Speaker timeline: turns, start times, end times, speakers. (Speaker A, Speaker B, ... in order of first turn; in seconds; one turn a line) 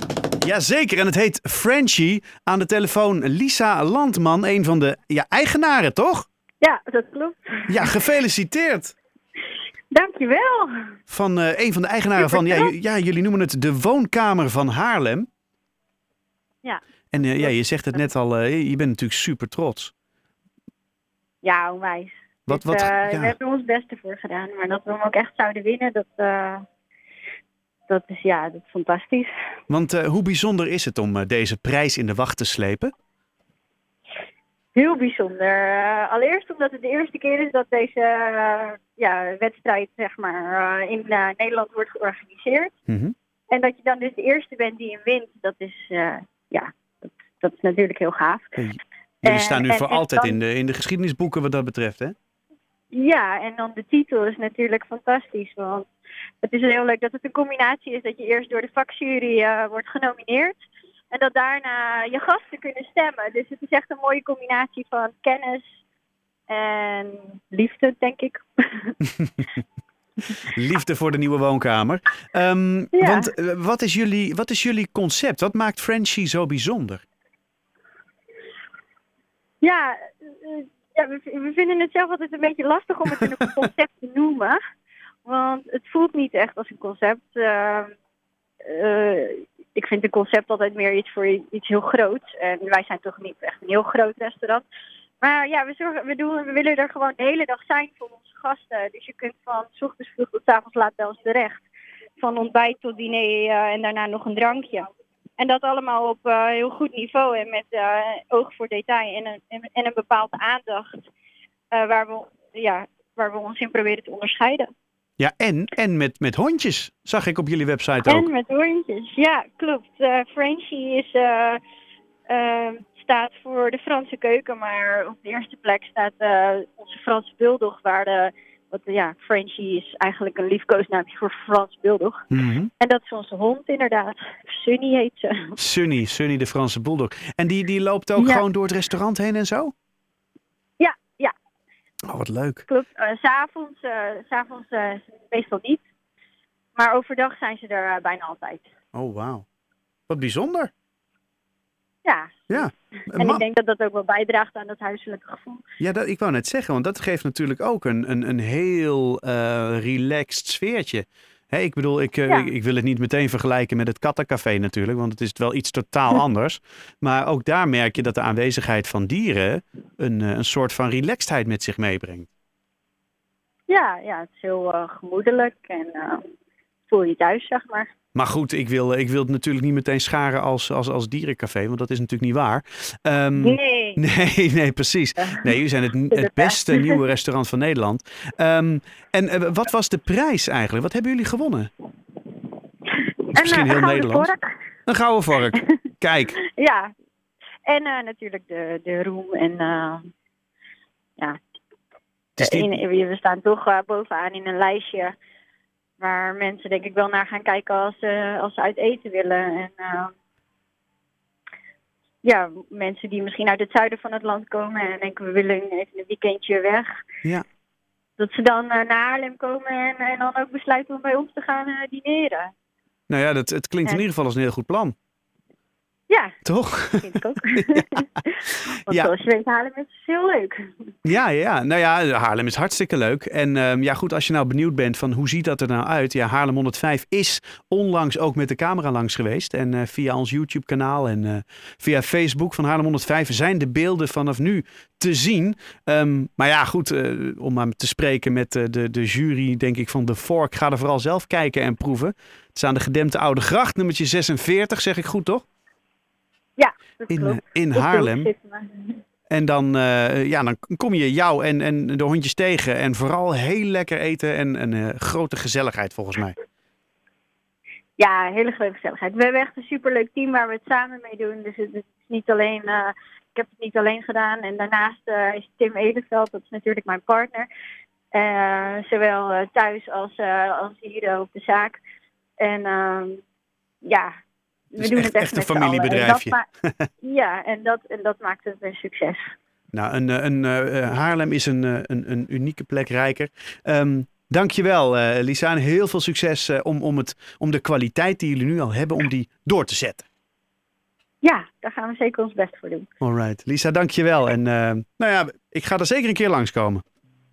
Speaker A: 0.4-6.3
Speaker B: 6.6-7.9
Speaker A: 7.7-8.9
Speaker B: 9.9-10.9
Speaker A: 11.1-15.3
Speaker B: 12.2-12.7
Speaker B: 16.6-17.5
Speaker A: 17.1-19.9
Speaker B: 21.4-26.6
Speaker A: 22.5-23.3
Speaker B: 27.9-29.3
Speaker A: 29.7-32.9
Speaker B: 34.7-42.7
Speaker A: 42.9-43.1
Speaker B: 43.5-48.6
Speaker A: 48.6-52.1
Speaker B: 49.2-50.4
Speaker B: 52.9-55.9
Speaker B: 56.4-65.7
Speaker B: 66.5-69.0
Speaker A: 69.0-69.4
Speaker A: 70.4-77.0
Speaker B: 72.9-73.3
Speaker B: 79.6-84.6
Speaker B: 85.2-87.9
Speaker B: 88.6-94.7
Speaker B: 95.2-101.6
Speaker B: 102.2-111.0
Speaker B: 111.7-114.7
Speaker A: 115.2-118.3
Speaker B: 118.0-121.6
Speaker B: 122.3-132.2
Speaker A: 132.3-132.7
Speaker B: 132.8-135.6
Speaker A: 135.6-139.7
Speaker B: 138.2-138.4
Speaker B: 140.8-141.3
Speaker A: 142.1-142.7
Speaker B: 142.7-145.8
Speaker B: 146.7-148.7
Speaker A: 148.9-149.4
Speaker A: 150.1-150.7
Speaker B: 152.0-155.6
Speaker A: 152.5-153.4
Speaker A: 155.8-172.3
Speaker B: 173.7-176.2
Speaker B: 176.9-177.9
Speaker A: 178.1-191.7
Speaker B: 183.4-184.0
Speaker B: 185.2-185.5
Speaker B: 186.1-187.0
Speaker B: 192.9-194.6
Speaker A: 193.3-194.3
Speaker A: 194.8-196.3
Speaker B: 196.4-196.9
Speaker B: 197.6-200.1
Speaker A: 202.4-202.8
Speaker B: 202.4-205.1
Speaker B: 206.0-210.1
Speaker B: 212.2-217.0
Speaker B: 218.2-222.5
Speaker A: 223.1-224.9
Speaker B: 226.1-226.4
Speaker A: 226.4-228.0
Speaker B: 227.0-230.9
Speaker A: 231.0-255.4
Speaker B: 256.6-259.0
Speaker A: 257.1-258.3
Speaker A: 259.3-266.4
Speaker B: 268.0-277.5
Speaker B: 278.1-281.8
Speaker B: 282.4-283.2
Speaker B: 283.8-284.1
Speaker B: 284.7-286.4
Speaker A: 284.8-286.9
Speaker B: 287.0-289.3
Speaker A: 289.7-300.1
Speaker B: 301.2-302.9
Speaker A: 303.0-306.8